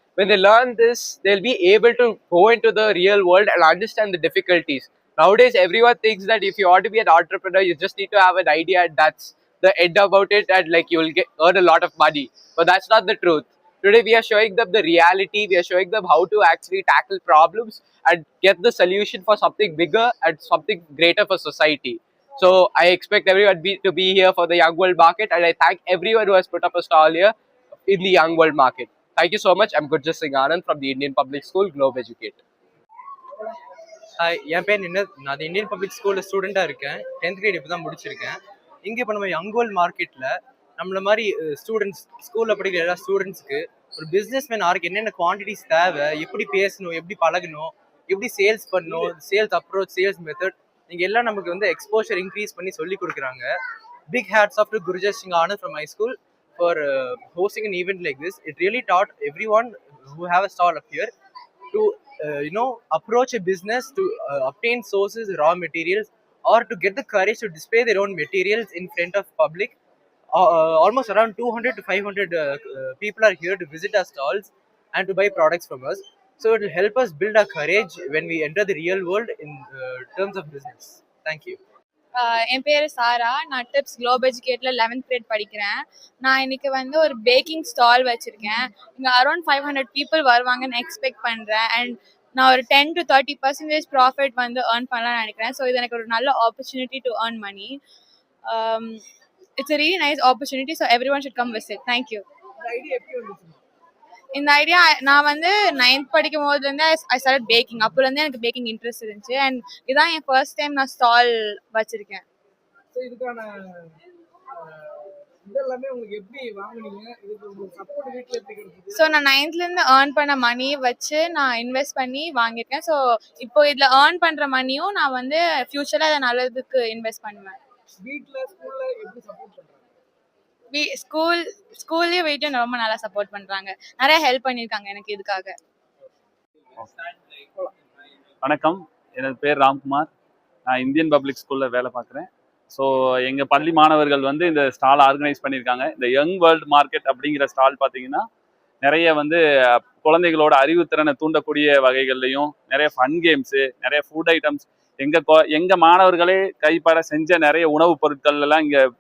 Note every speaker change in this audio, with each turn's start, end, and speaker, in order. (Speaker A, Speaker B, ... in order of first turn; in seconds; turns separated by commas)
Speaker A: 0.2-27.3, Speaker A: 27.9-32.4, Speaker B: 34.2-53.5, Speaker B: 54.1-61.1, Speaker B: 61.7-69.8, Speaker B: 70.3-81.6, Speaker C: 82.2-97.7, Speaker C: 98.5-99.0, Speaker C: 99.6-102.2, Speaker D: 102.6-103.6, Speaker C: 104.3-112.2, Speaker D: 112.9-114.0, Speaker D: 114.5-119.0, Speaker C: 118.9-127.6, Speaker D: 128.0-129.8, Speaker C: 130.7-135.5, Speaker E: 138.4-140.1, Speaker E: 140.7-148.2, Speaker E: 148.8-158.8